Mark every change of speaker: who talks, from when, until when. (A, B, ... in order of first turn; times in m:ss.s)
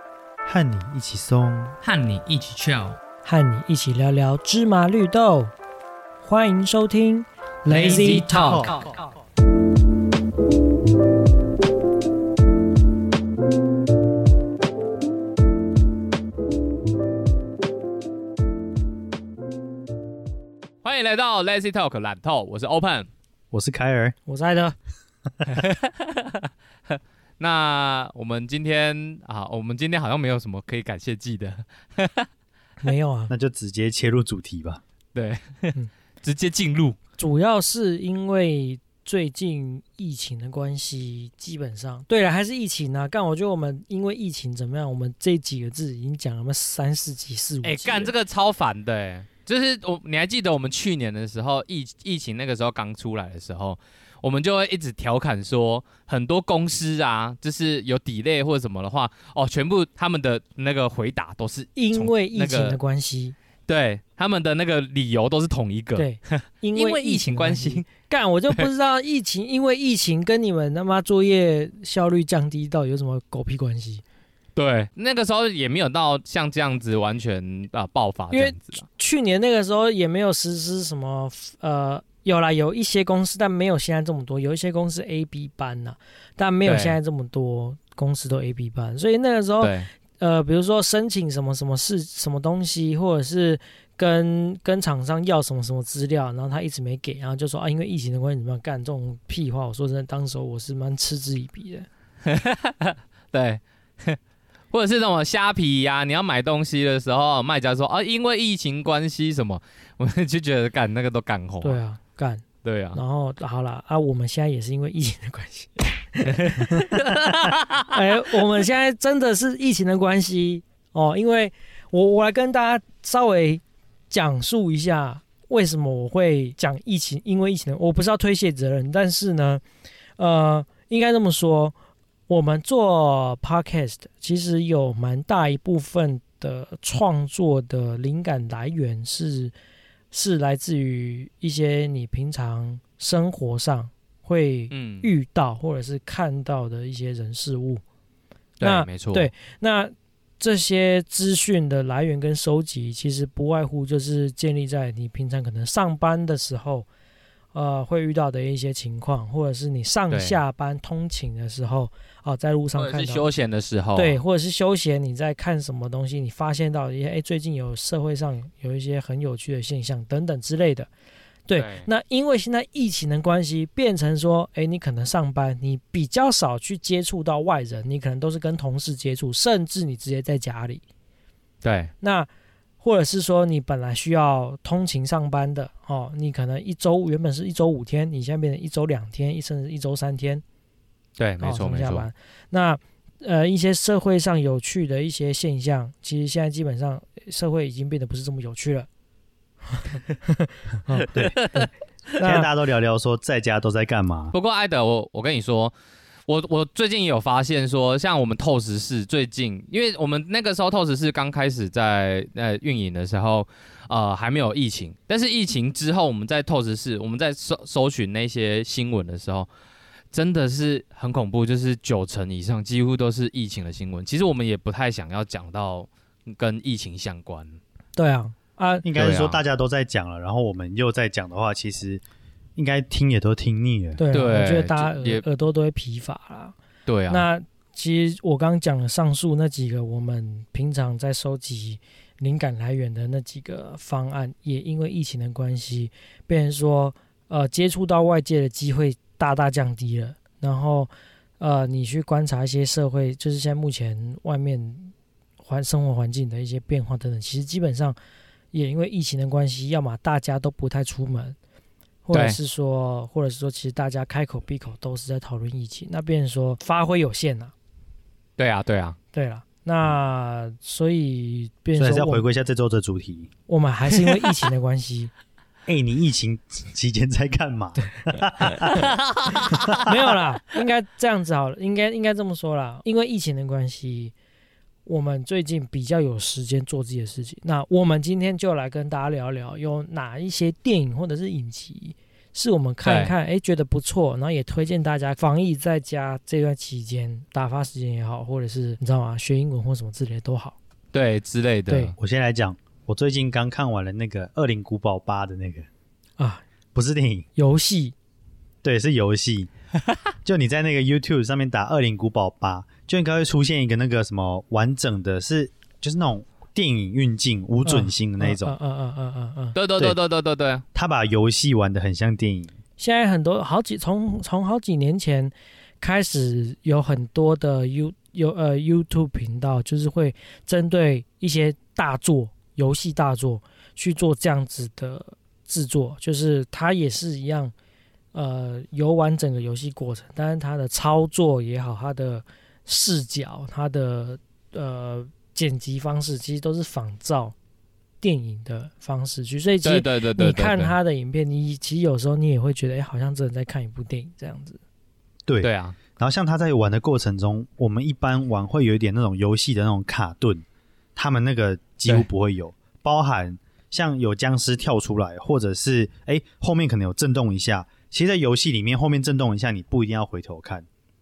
0:00.4-0:01.8 A
0:01.8-0:03.0 B
0:03.2-0:05.5 C
0:06.2-0:08.9 C
0:07.7-0:08.9 B
0:08.4-0:08.8 A
0:20.8-0:23.1 B
0:23.5-0:24.1 A
0:24.3-0:24.8 C
0:25.5-0:26.3 B
0:26.9-0:32.3 B
0:32.8-0:33.3 C
0:33.3-0:34.8 A
0:35.1-0:37.0 B
0:37.2-0:48.1 C
0:47.6-1:02.8 B
1:01.8-1:03.4 C
1:03.7-1:07.9 B
1:06.0-1:14.0 C
1:14.6-1:18.8 B
1:18.3-1:41.9 C
1:26.6-1:27.0 B
1:29.6-1:29.9 B
1:42.2-1:44.2 B
1:44.7-1:51.8 B
1:51.6-1:52.4 C
1:52.6-1:53.0 B
1:52.9-1:57.2 C
1:56.2-1:57.9 B
1:57.8-2:09.6 C
2:10.2-2:11.7 C
2:12.3-2:19.5 C
2:20.1-2:27.8 C
2:24.7-2:25.1 B
2:28.6-2:29.3 B
2:28.6-2:36.9 C
2:37.5-2:43.2 C
2:40.1-2:40.4 B
2:42.7-2:44.2 B
2:44.0-2:50.9 C
2:51.5-3:00.8 C
2:51.6-2:51.8 B
3:01.6-3:01.9 B
3:02.0-3:02.3 C
3:02.8-3:10.4 C
3:11.2-3:12.1 B
3:11.4-3:18.9 C
3:19.7-3:21.6 C
3:21.3-3:21.7 B
3:22.2-3:22.5 C
3:22.2-3:24.3 A
3:24.3-3:25.7 B
3:26.3-3:39.5 B
3:40.1-3:47.6 B
3:48.0-3:48.8 C
3:48.8-3:52.0 A
3:48.9-3:49.4 B
3:52.6-3:54.0 A
3:54.0-3:56.5 C
3:54.1-3:55.2 B
3:56.8-3:57.2 B
3:57.1-4:18.0 C
4:18.5-4:21.4 C
4:22.0-4:27.5 C
4:28.4-4:29.0 B
4:29.1-4:32.2 C
4:31.8-4:33.3 A
4:33.5-4:35.1 C
4:35.7-4:38.9 A
4:37.8-4:38.6 C
4:38.7-4:39.8 B
4:39.3-4:44.1 C
4:39.5-4:39.8 A
4:44.8-5:00.6 C
4:52.8-4:53.1 B
5:00.9-5:01.9 B
5:01.7-5:01.9 C
5:02.0-5:05.7 A
5:06.7-5:07.2 A
5:07.4-5:07.9 C
5:08.6-5:09.5 A
5:10.2-5:18.5 A
5:17.6-5:19.6 C
5:19.5-5:20.6 B
5:20.7-5:22.5 A
5:22.8-5:37.5 C
5:38.1-5:47.3 C
5:48.0-5:54.6 C
5:49.6-5:50.8 B
5:55.2-6:00.4 A
5:55.4-5:55.8 B
6:01.0-6:10.6 A